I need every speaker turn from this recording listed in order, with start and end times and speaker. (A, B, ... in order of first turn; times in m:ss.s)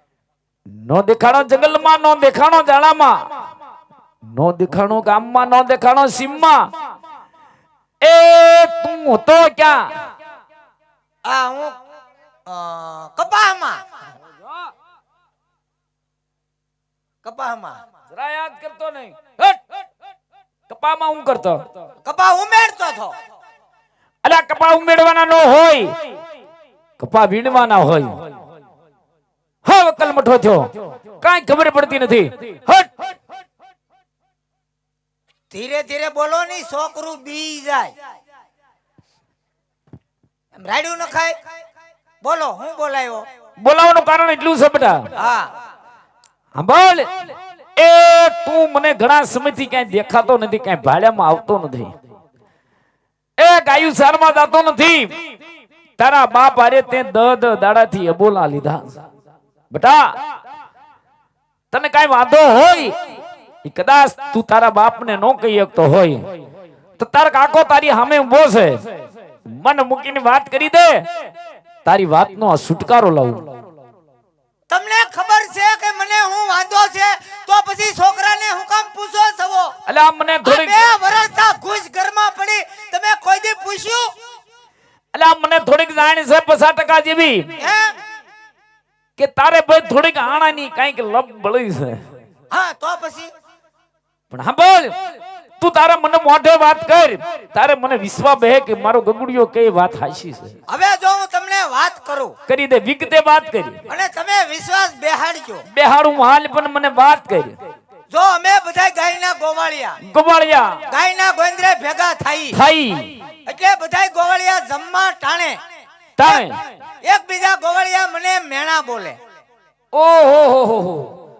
0:00.7-0:03.2 A
0:04.3-0:06.7 A
0:08.0-0:09.9 A
0:11.2-0:11.8 B
0:12.5-0:13.8 B
0:17.2-0:17.8 B
0:18.1-0:19.6 A
0:20.7-0:21.6 A
0:22.0-0:23.1 B
0:24.2-0:25.9 A
0:27.0-0:28.2 A
0:29.6-0:32.9 A
0:35.5-0:37.9 B
0:40.6-0:41.4 B
0:42.2-0:43.2 B
0:43.6-0:45.1 A
0:45.2-0:45.5 B
0:46.6-0:47.1 A
0:47.8-0:51.9 A
0:53.4-0:55.2 A
0:56.0-0:59.0 A
0:59.7-1:00.2 A
1:01.7-1:03.0 A
1:03.6-1:06.3 A
1:07.0-1:08.8 A
1:09.5-1:11.0 A
1:11.8-1:13.5 A
1:14.7-1:19.7 B
1:19.9-1:20.9 A
1:20.4-1:24.1 B
1:25.1-1:27.5 A
1:27.6-1:28.0 B
1:29.2-1:32.0 A
1:32.5-1:33.3 B
1:34.3-1:35.0 A
1:35.6-1:40.5 A
1:40.7-1:42.4 B
1:42.5-1:43.8 A
1:43.9-1:45.6 B
1:45.7-1:47.6 A
1:48.1-1:50.0 B
1:50.0-1:50.8 A
1:50.9-1:52.6 B
1:52.5-1:53.1 A
1:53.5-1:55.6 B
1:56.2-1:56.6 A
1:57.0-1:59.2 B
1:59.9-2:01.1 A